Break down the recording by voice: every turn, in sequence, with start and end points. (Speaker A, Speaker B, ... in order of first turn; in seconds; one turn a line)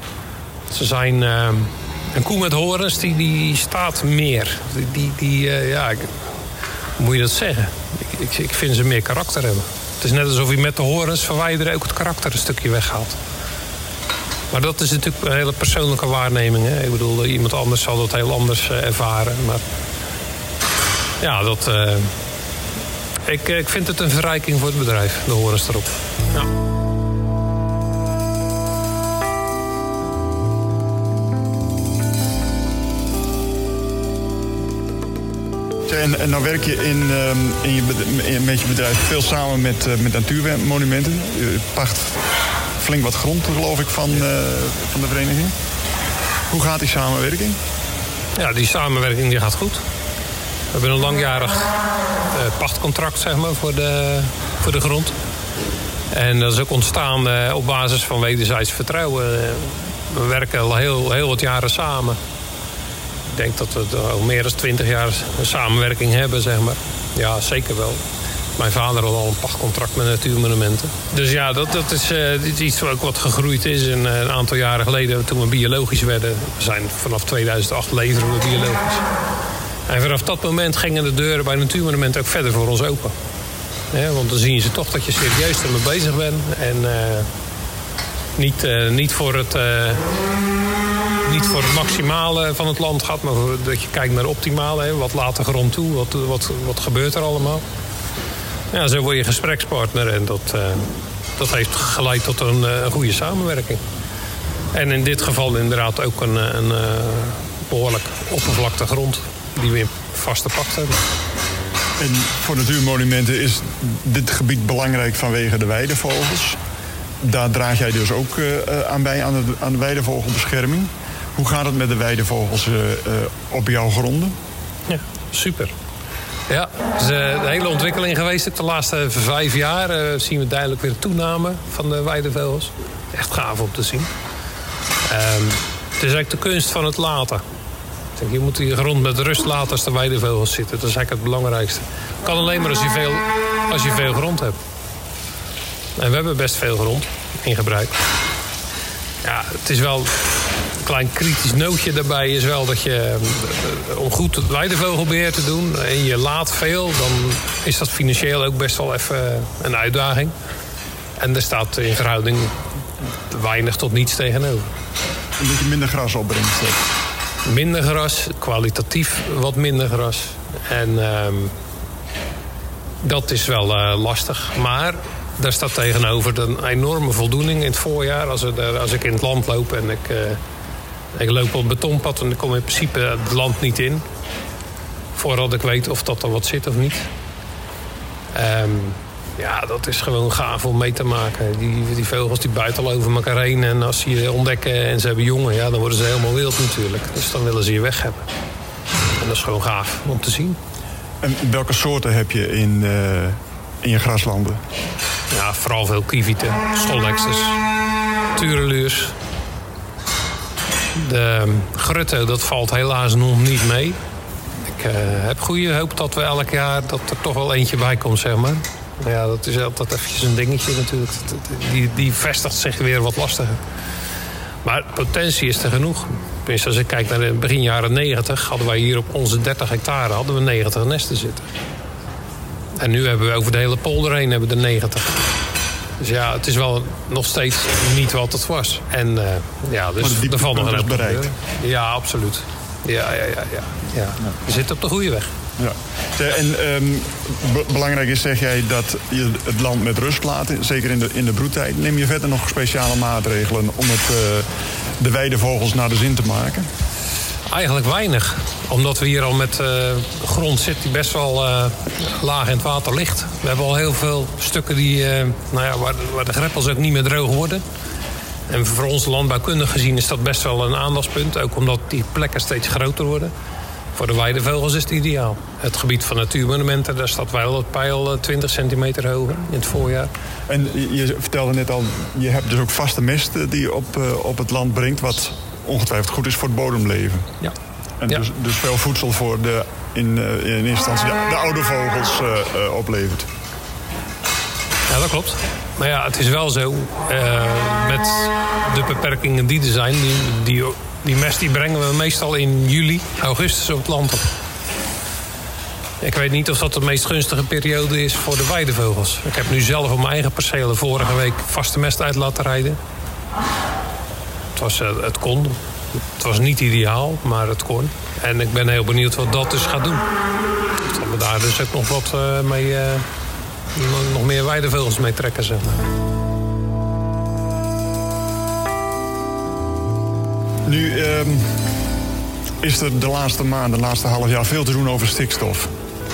Speaker A: 0.7-6.2
Speaker A: 7.0-13.2
Speaker A: 14.5-19.6
Speaker A: 21.2-22.1
Speaker A: 23.2-26.5
Speaker B: 35.9-42.2
Speaker B: 42.8-45.5
Speaker B: 46.5-47.6
Speaker A: 48.4-49.8
Speaker A: 50.7-51.7
Speaker A: 52.3-55.2
Speaker A: 56.1-62.2
Speaker A: 63.3-68.0
Speaker A: 68.5-79.1
Speaker A: 79.9-83.2
Speaker A: 83.9-87.3
Speaker A: 88.3-90.0
Speaker A: 91.2-97.6
Speaker A: 98.7-103.8
Speaker A: 104.7-111.0
Speaker B: 112.0-116.6
Speaker B: 117.2-124.3
Speaker A: 124.9-125.7
Speaker A: 126.5-134.1
Speaker A: 135.0-137.4
Speaker A: 138.2-144.6
Speaker A: 145.9-148.0
Speaker A: 149.2-160.3
Speaker A: 161.2-164.7
Speaker B: 165.4-166.9
Speaker A: 167.4-171.6
Speaker A: 173.0-180.4
Speaker A: 181.1-184.1
Speaker A: 185.1-187.1
Speaker A: 188.3-198.2
Speaker A: 199.2-200.6
Speaker B: 201.2-204.6
Speaker A: 205.3-207.6
Speaker A: 208.3-209.2
Speaker A: 210.9-214.0
Speaker A: 214.6-223.6
Speaker A: 224.6-231.5
Speaker A: 232.7-235.3
Speaker A: 236.0-245.3
Speaker B: 240.0-241.3
Speaker B: 245.6-256.7
Speaker A: 257.5-267.6
Speaker A: 268.5-273.3
Speaker A: 273.9-280.1
Speaker B: 280.5-287.3
Speaker B: 288.0-293.3
Speaker A: 294.9-304.2
Speaker A: 306.0-312.8
Speaker A: 314.5-315.6
Speaker A: 316.1-320.1
Speaker A: 320.8-323.0
Speaker A: 323.7-325.8
Speaker B: 330.6-331.6
Speaker B: 332.6-335.7